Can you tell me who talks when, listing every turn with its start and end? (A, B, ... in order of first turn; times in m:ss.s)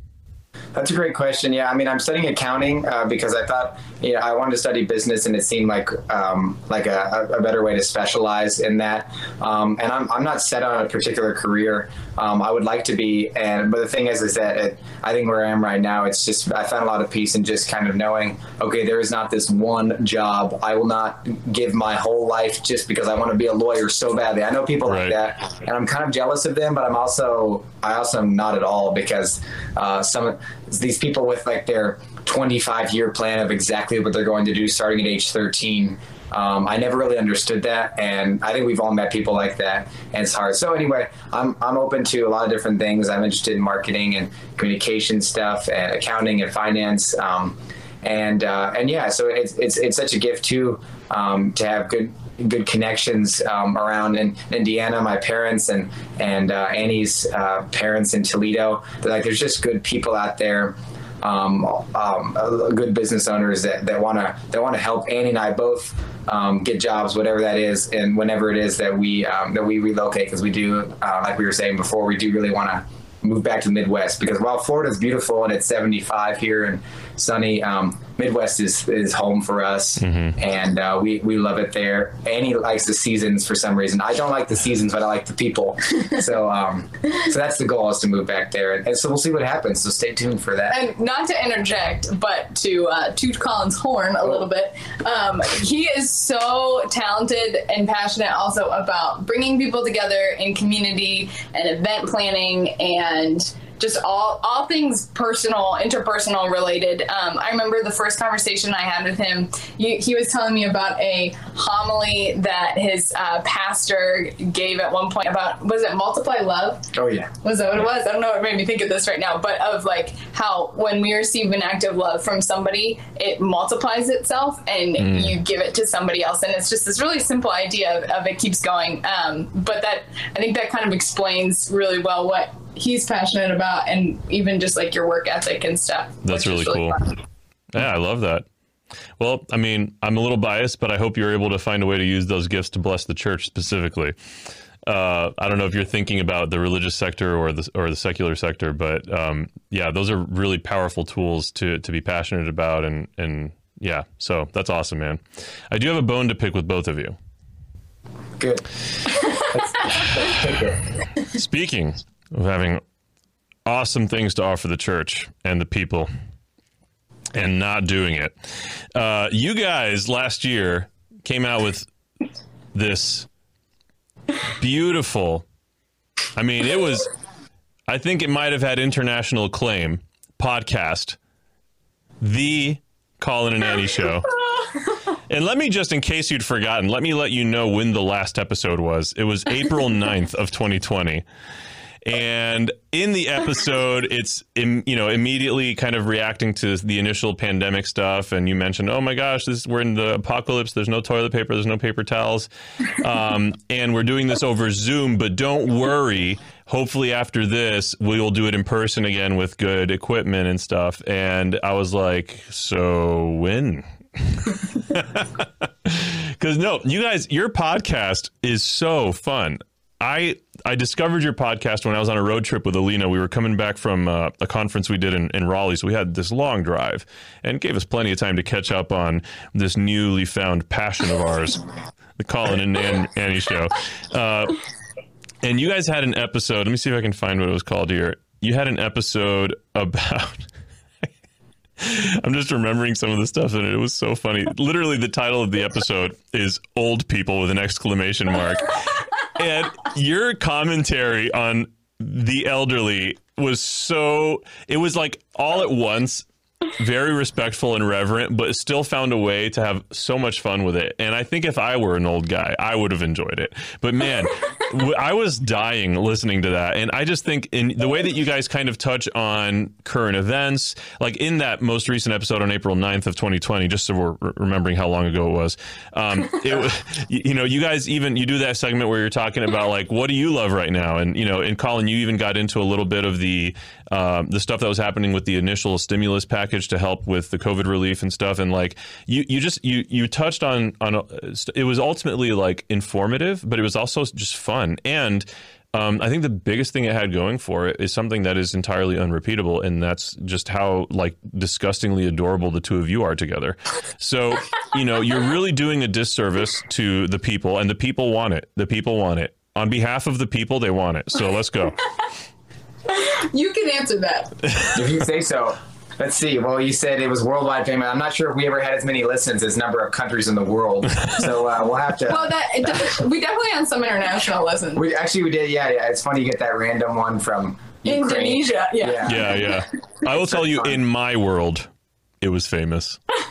0:00.7-1:30.8 A
0:24.9-0:25.2 B
1:20.0-1:20.4 B
1:30.7-1:56.9 C
1:56.9-1:57.3 A
1:57.4-2:17.2 C
2:05.0-2:05.3 B
2:16.2-2:17.0 B
2:17.7-2:18.4 B
2:19.2-2:24.1 B
2:24.8-2:37.2 B
2:38.4-2:38.7 A
2:39.3-2:40.9 A
2:41.3-2:42.8 B
2:43.6-2:46.1 B
2:47.3-2:51.9 B
2:52.7-2:53.3 B
2:54.5-2:55.4 B
2:56.3-2:57.1 B
2:57.9-3:01.2 B
3:02.2-3:04.4 B
3:05.3-3:11.2 B
3:12.0-3:51.6 B
3:52.2-3:54.6 B
3:55.4-4:00.5 B
4:01.8-5:11.8 B
5:12.9-5:14.4 C
5:14.7-5:23.0 A
5:22.0-5:24.8 C
5:24.7-5:29.4 A
5:27.8-5:29.6 C
5:29.0-5:31.7 B
5:30.0-5:30.8 A
5:32.2-5:33.0 B